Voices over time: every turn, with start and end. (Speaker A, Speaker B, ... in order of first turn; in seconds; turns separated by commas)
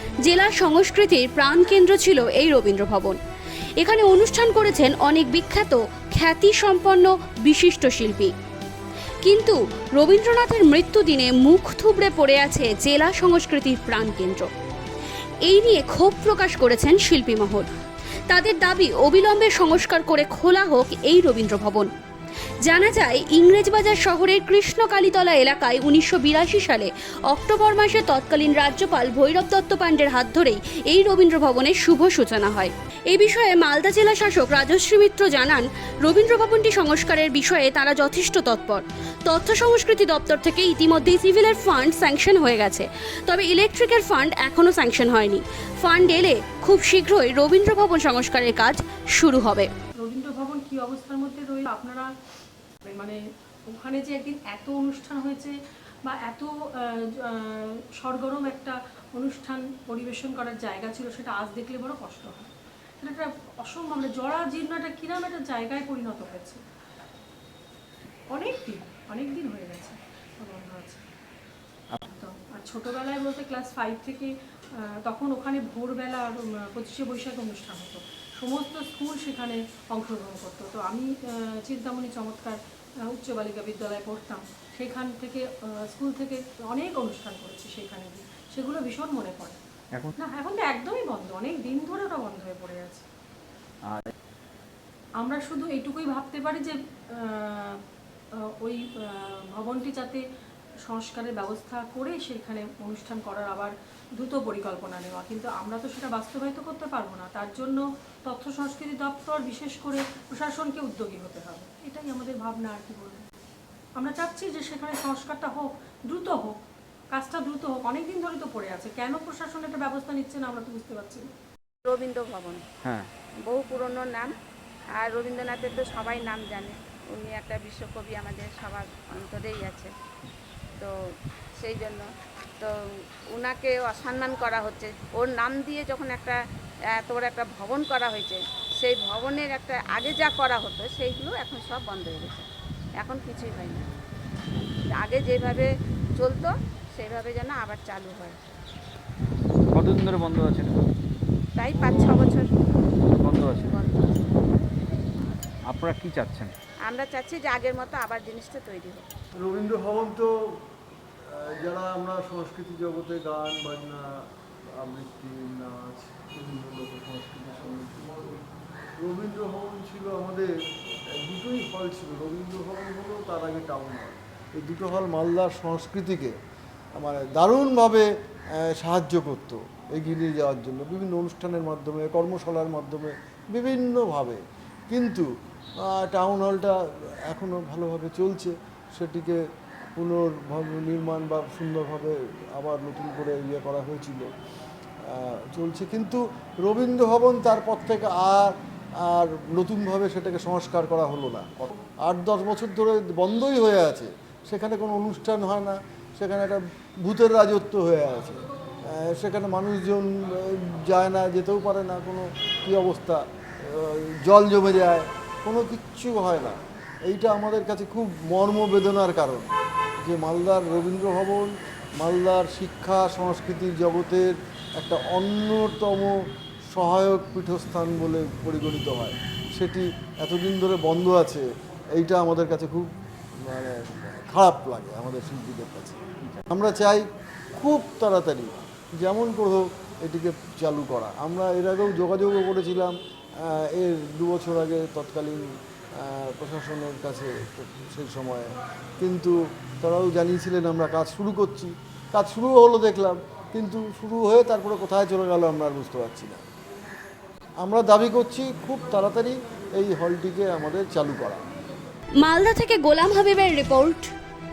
Speaker A: 0.2-3.2, Speaker A: 3.8-8.3, Speaker A: 9.2-14.5, Speaker A: 15.5-17.7, Speaker A: 18.3-21.9, Speaker A: 22.6-49.7, Speaker B: 50.0-52.1, Speaker B: 52.9-53.2, Speaker B: 53.7-55.5, Speaker B: 56.0-62.5, Speaker B: 63.0-66.6, Speaker B: 68.3-71.0, Speaker B: 72.1-74.3, Speaker B: 75.0-82.6, Speaker B: 83.1-89.6, Speaker B: 90.2-93.0, Speaker C: 93.8-94.1, Speaker B: 95.2-97.8, Speaker B: 98.6-100.2, Speaker B: 100.9-113.2, Speaker B: 114.0-116.6, Speaker B: 117.1-121.3, Speaker D: 121.8-122.6, Speaker C: 122.8-123.1, Speaker D: 123.5-124.3, Speaker D: 125.0-129.9, Speaker D: 131.6-132.1, Speaker D: 133.3-136.4, Speaker D: 136.9-142.5, Speaker D: 143.0-143.8, Speaker D: 144.9-145.7, Speaker D: 146.2-148.4, Speaker C: 149.7-150.8, Speaker D: 151.6-152.6, Speaker C: 151.7-152.3, Speaker C: 153.2-153.8, Speaker D: 153.6-154.4, Speaker C: 155.7-156.5, Speaker D: 156.9-159.1, Speaker E: 159.4-160.3, Speaker E: 161.3-164.2, Speaker E: 164.8-168.4, Speaker E: 169.0-170.5, Speaker E: 171.1-176.3, Speaker E: 177.0-185.3, Speaker E: 185.8-189.4, Speaker E: 189.9-194.3, Speaker E: 195.1-226.2, Speaker E: 226.7-232.9, Speaker E: 233.5-237.0, Speaker E: 237.6-245.4, Speaker E: 246.0-256.4, Speaker E: 257.6-261.4, Speaker A: 262.2-264.1